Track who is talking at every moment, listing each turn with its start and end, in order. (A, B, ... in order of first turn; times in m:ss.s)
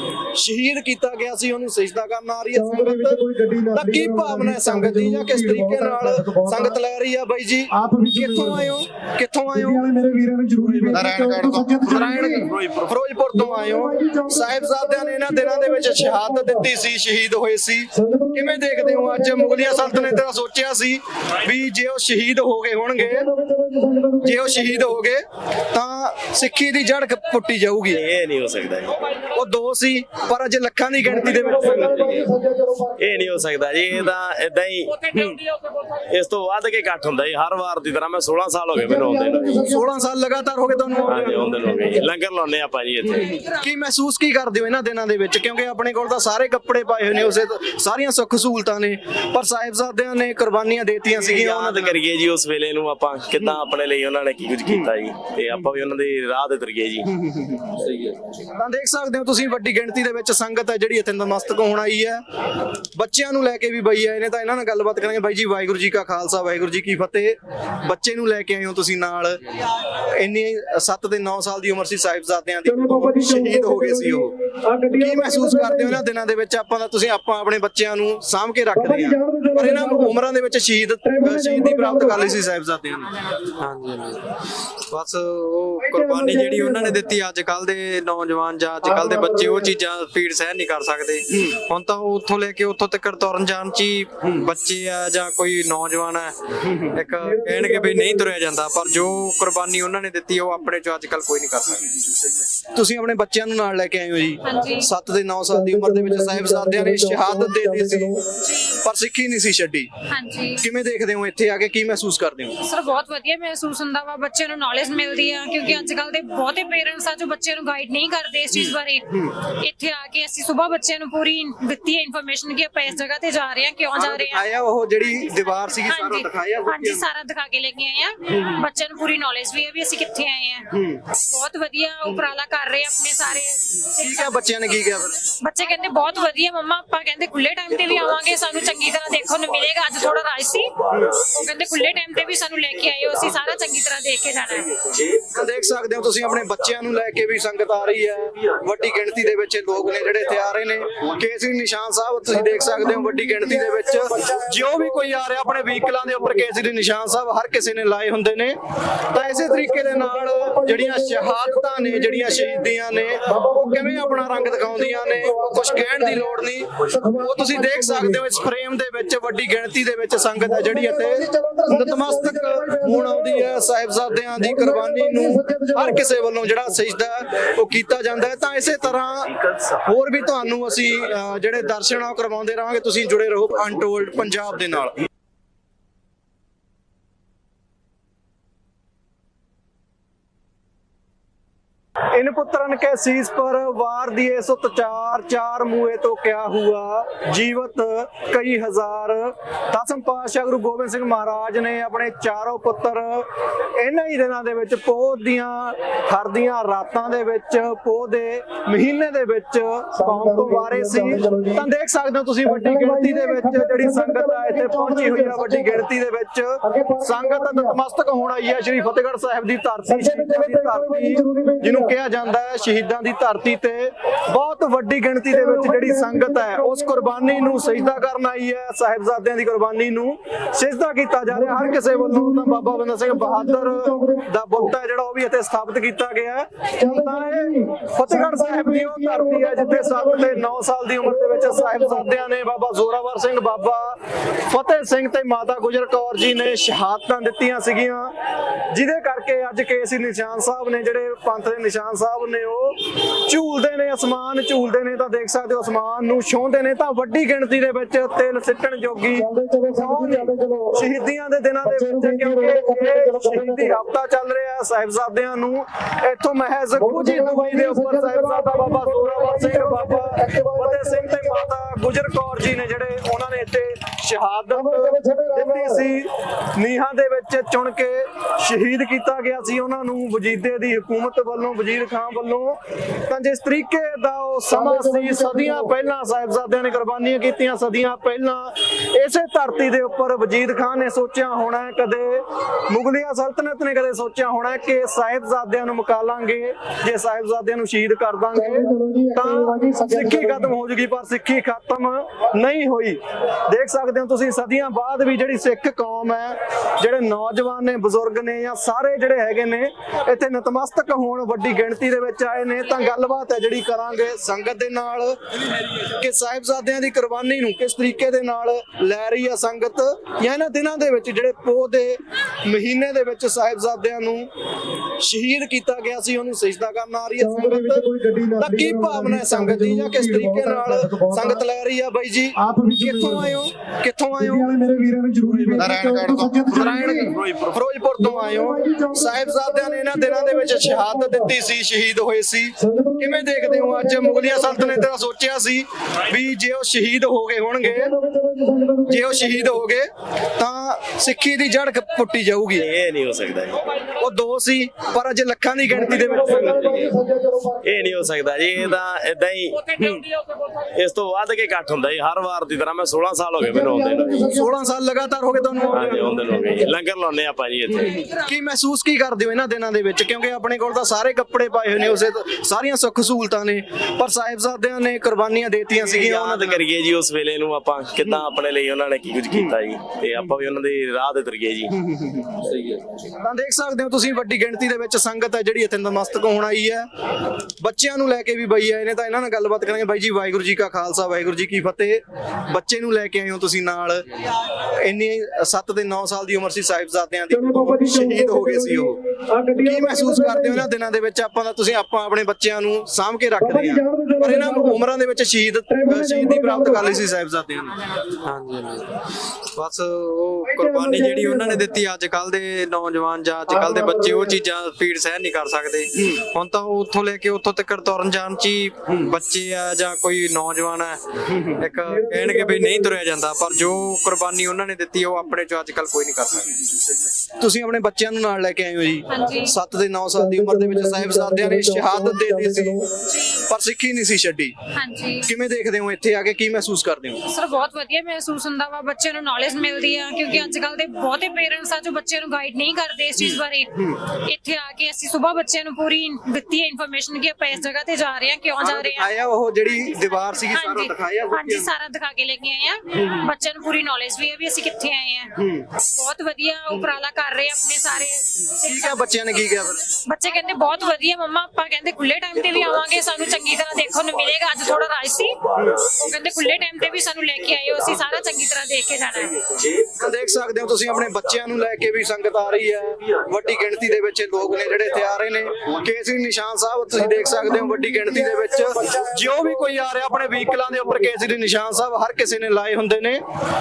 0:00.3-0:03.2 A
0:02.5-0:06.8 B
0:03.7-0:09.9 A
0:07.7-0:08.7 B
0:09.5-0:12.5 B
0:10.6-0:12.8 C
0:12.1-0:23.2 A
0:13.3-0:16.7 B
0:17.9-0:20.2 B
0:23.0-0:25.0 B
0:24.2-0:28.0 A
0:27.9-0:29.0 C
0:29.3-0:32.0 A
0:31.0-0:33.5 B
0:31.4-0:32.3 C
0:33.0-0:35.4 C
0:36.1-0:39.6 C
0:38.7-0:42.0 B
0:39.6-0:41.8 A
0:41.1-0:43.4 C
0:43.5-0:52.0 A
0:51.1-0:57.0 C
0:57.1-0:57.8 A
0:57.8-0:58.2 C
0:58.5-1:02.2 A
1:02.9-1:09.4 A
1:10.1-1:14.3 A
1:12.6-1:16.0 B
1:15.0-1:23.1 A
1:18.7-1:20.2 B
1:21.0-1:22.3 B
1:23.6-1:24.4 D
1:24.9-1:41.9 D
1:25.8-1:27.0 B
1:28.8-1:29.7 B
1:37.2-1:38.3 B
1:42.7-1:48.2 A
1:44.4-1:44.9 E
1:45.5-1:48.2 B
1:48.4-1:48.8 E
1:48.8-1:49.9 A
1:50.1-1:50.6 E
1:50.6-1:52.6 A
1:52.6-2:04.4 E
1:58.5-1:59.3 A
2:03.9-2:07.0 A
2:05.7-2:14.4 E
2:08.3-2:08.6 A
2:10.7-2:11.0 A
2:14.0-2:15.2 A
2:15.4-2:24.8 E
2:17.7-2:21.5 C
2:24.8-2:26.9 C
2:25.3-2:38.6 A
2:32.3-2:36.5 B
2:39.1-3:04.9 A
2:39.1-2:42.7 B
2:43.3-2:48.2 B
2:50.4-2:53.5 B
2:54.3-2:56.1 B
3:12.1-4:08.1 A
3:29.9-3:31.6 B
3:32.4-3:35.8 B
3:36.6-3:37.8 B
3:39.8-3:41.9 B
3:45.3-3:48.0 B
3:51.3-3:54.7 B
3:56.8-4:00.4 B
4:01.0-4:02.1 B
4:08.7-5:15.2 A
4:19.1-4:20.8 B
4:21.6-4:23.8 B
4:26.7-4:31.5 B
4:34.5-4:35.8 B
4:44.5-4:45.7 B
4:58.3-5:00.5 B
5:15.9-5:24.3 A
5:25.0-5:27.8 A
5:27.2-5:31.4 B
5:28.4-5:34.5 A
5:32.4-5:33.4 B
5:34.1-5:37.2 B
5:35.2-5:35.9 A
5:35.6-5:37.0 C
5:36.5-5:47.9 A
5:38.0-5:41.3 B
5:42.6-5:44.9 B
5:47.6-5:49.6 B
5:48.9-5:52.7 A
5:52.6-5:53.6 C
5:54.0-5:56.8 A
5:55.7-5:58.1 B
5:57.6-6:00.1 C
6:00.7-6:04.3 C
6:03.4-6:06.7 B
6:04.3-6:06.4 A
6:05.7-6:08.0 C
6:08.2-6:16.6 A
6:15.7-6:21.7 C
6:19.3-6:19.6 A
6:21.7-6:22.5 A
6:22.5-6:22.8 C
6:23.2-6:26.9 A
6:27.6-6:34.0 A
6:34.8-6:39.0 A
6:37.3-6:40.6 B
6:39.6-6:47.7 A
6:43.4-6:44.9 B
6:45.7-6:46.9 B
6:48.2-7:06.6 D
6:50.4-6:51.7 B
6:53.5-6:54.4 B
7:01.9-7:02.9 B
7:07.4-7:12.8 A
7:09.1-7:09.5 E
7:10.1-7:12.9 B
7:13.1-7:13.4 E
7:13.5-7:14.5 A
7:14.7-7:15.3 E
7:15.2-7:17.2 A
7:17.3-7:29.1 E
7:23.2-7:23.9 A
7:28.6-7:31.7 A
7:29.7-7:39.2 E
7:33.0-7:33.2 A
7:35.4-7:35.6 A
7:38.6-7:39.8 A
7:40.1-7:49.4 E
7:49.4-7:51.6 C
7:50.0-8:03.2 A
7:56.9-8:01.2 B